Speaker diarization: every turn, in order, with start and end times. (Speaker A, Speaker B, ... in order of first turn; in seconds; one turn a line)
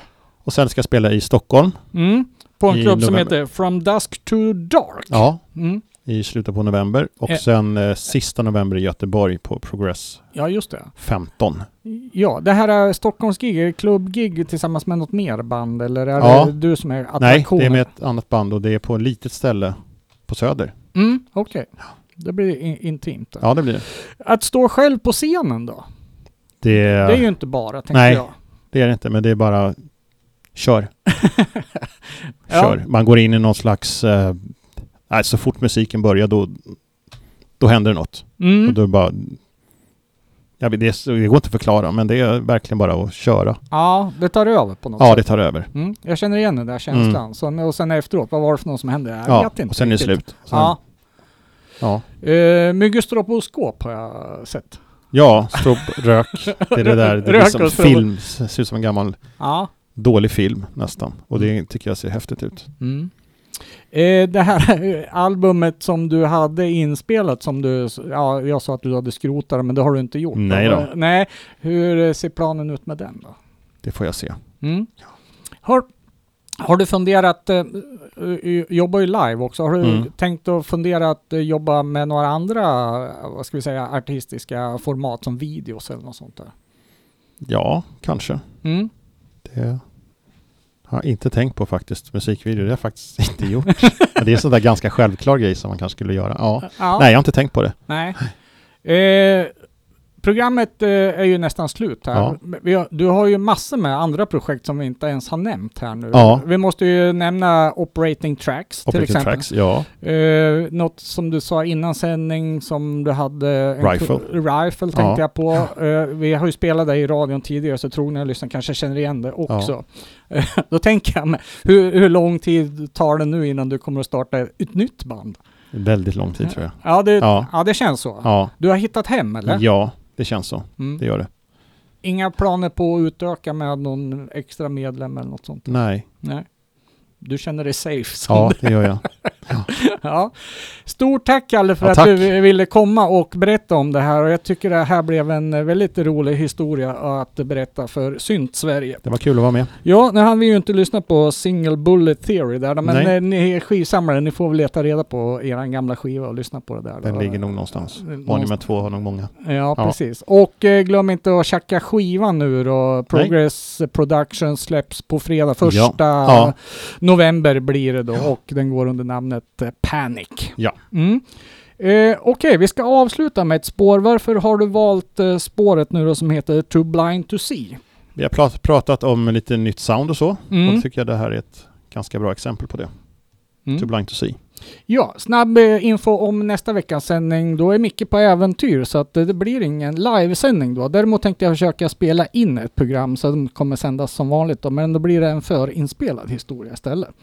Speaker A: 0.4-1.8
Speaker B: 1.9-5.8
Speaker A: 2.7-3.3
Speaker A: 5.1-5.4
Speaker A: 5.9-10.3
Speaker B: 10.3-10.9
Speaker A: 11.0-11.7
Speaker B: 11.8-17.9
Speaker A: 16.2-16.5
Speaker A: 17.2-20.7
Speaker B: 20.9-25.8
Speaker A: 23.4-23.8
Speaker A: 26.6-27.3
Speaker B: 27.0-28.3
Speaker A: 27.9-29.8
Speaker A: 30.5-30.9
Speaker B: 31.1-31.6
Speaker B: 32.5-32.8
Speaker A: 32.5-36.8
Speaker A: 37.6-39.4
Speaker B: 38.4-38.8
Speaker A: 40.6-43.6
Speaker B: 43.7-50.8
Speaker A: 45.0-45.7
Speaker A: 46.9-47.2
Speaker A: 49.2-50.8
Speaker B: 52.2-54.8
Speaker A: 55.1-59.3
Speaker B: 55.5-56.0
Speaker B: 56.5-58.0
Speaker B: 59.4-59.7
Speaker A: 59.9-62.7
Speaker B: 62.8-63.1
Speaker B: 63.9-73.3
Speaker A: 70.3-70.9
Speaker A: 73.8-74.4
Speaker B: 74.6-74.9
Speaker B: 76.6-86.5
Speaker A: 79.8-80.1
Speaker A: 87.4-88.4
Speaker B: 88.6-88.9
Speaker A: 89.4-89.8
Speaker A: 90.9-98.3
Speaker B: 96.7-97.1
Speaker B: 97.9-98.2
Speaker B: 98.8-99.5
Speaker B: 100.2-109.5
Speaker A: 106.1-106.4
Speaker A: 108.9-109.9
Speaker B: 110.0-125.4
Speaker A: 113.8-114.2
Speaker A: 114.9-115.2
Speaker A: 125.7-127.5
Speaker B: 126.8-129.6
Speaker A: 128.2-128.5
Speaker A: 129.4-131.3
Speaker B: 132.0-135.7
Speaker A: 135.7-136.1
Speaker B: 137.2-149.0
Speaker A: 138.3-139.7
Speaker A: 141.8-142.3
Speaker A: 149.0-149.7
Speaker B: 149.8-158.6
Speaker A: 152.8-153.1
Speaker A: 157.0-159.9
Speaker B: 159.4-171.2
Speaker A: 165.6-166.5
Speaker B: 171.8-177.8
Speaker A: 178.2-182.9
Speaker B: 180.5-180.8
Speaker A: 183.7-184.4
Speaker B: 184.9-197.1